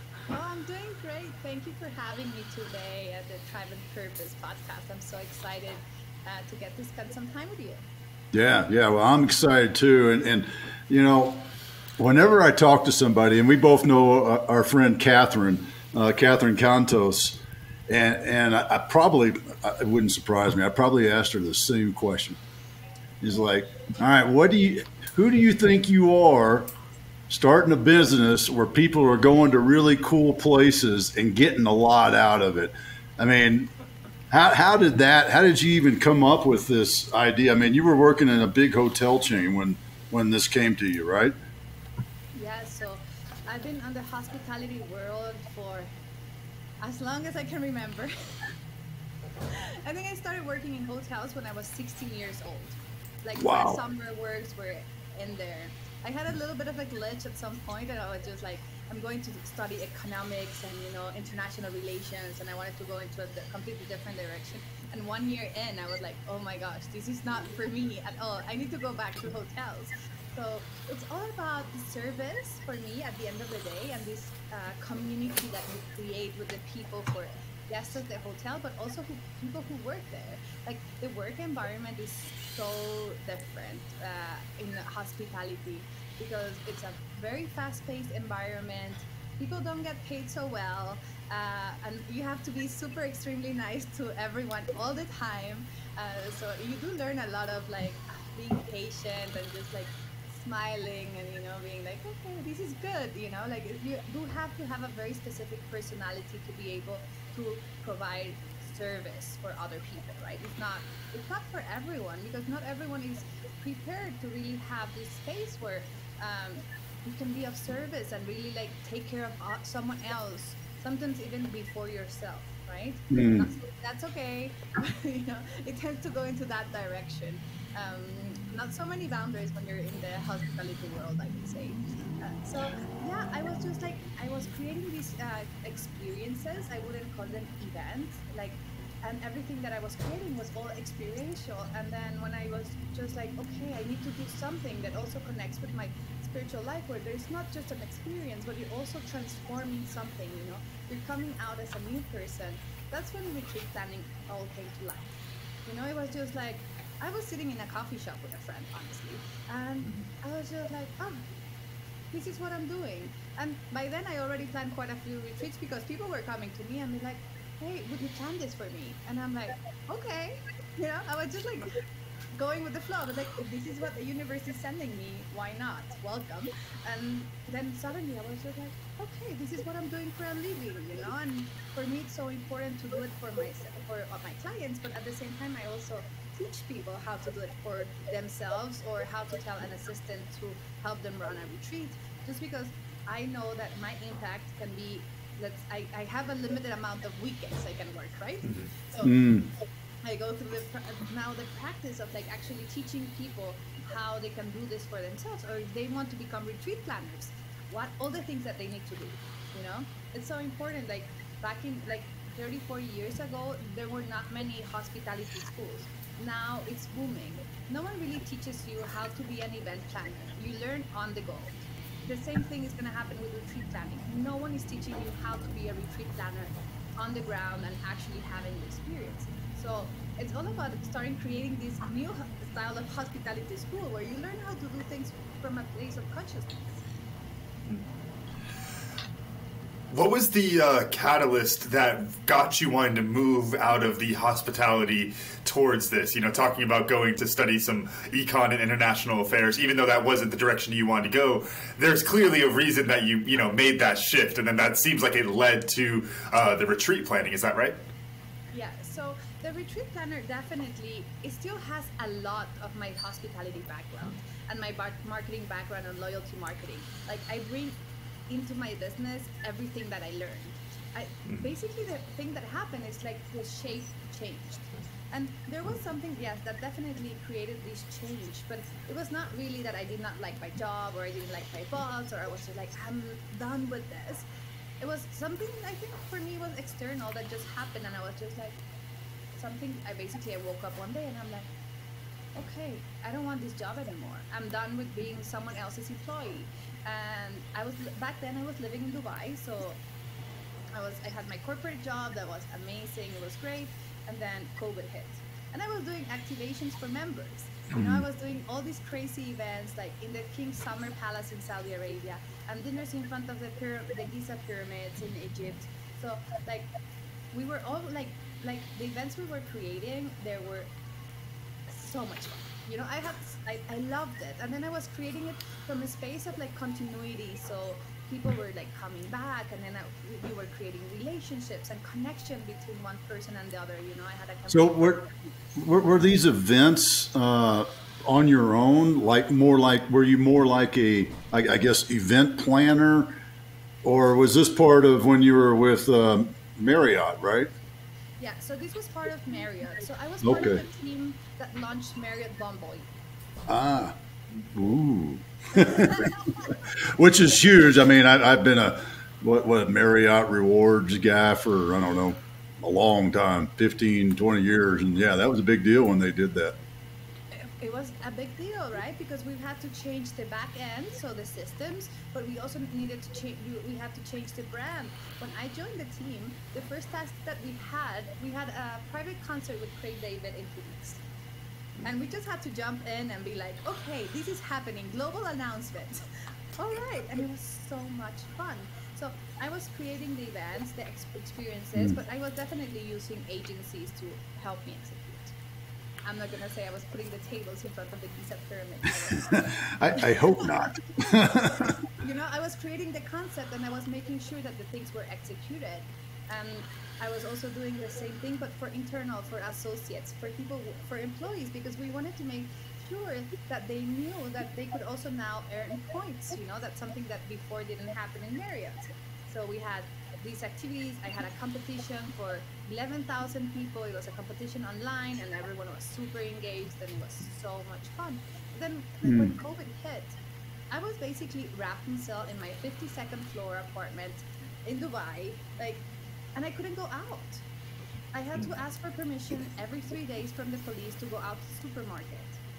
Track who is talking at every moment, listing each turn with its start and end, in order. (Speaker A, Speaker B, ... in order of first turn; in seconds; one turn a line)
Speaker A: 0.3-7.8
Speaker B: 8.3-22.4
Speaker B: 23.2-26.7
Speaker B: 27.3-33.7
Speaker B: 34.3-41.3
Speaker A: 42.3-45.9
Speaker A: 46.8-48.1
Speaker A: 49.5-155.1
Speaker B: 53.4-53.8
Speaker B: 123.1-123.5
Speaker A: 155.6-161.2
Speaker A: 162.1-171.8
Speaker A: 172.3-199.1
Speaker C: 198.4-198.7
Speaker B: 199.0-199.5
Speaker A: 200.0-236.8
Speaker C: 239.9-257.8
Speaker A: 258.5-284.2
Speaker A: 284.8-288.6
Speaker A: 289.4-291.5
Speaker A: 292.4-299.8
Speaker A: 300.7-316.7
Speaker B: 307.8-308.0
Speaker A: 317.3-320.7
Speaker A: 321.7-335.3
Speaker B: 334.5-335.0
Speaker B: 335.5-343.1
Speaker B: 343.8-347.5
Speaker A: 348.2-352.9
Speaker B: 350.2-350.6
Speaker B: 353.5-353.9
Speaker B: 354.5-366.6
Speaker A: 355.6-356.6
Speaker A: 367.3-381.0
Speaker A: 381.8-395.3
Speaker A: 396.0-430.2
Speaker B: 399.6-401.7
Speaker B: 429.0-429.3
Speaker A: 430.7-437.4
Speaker A: 438.1-442.4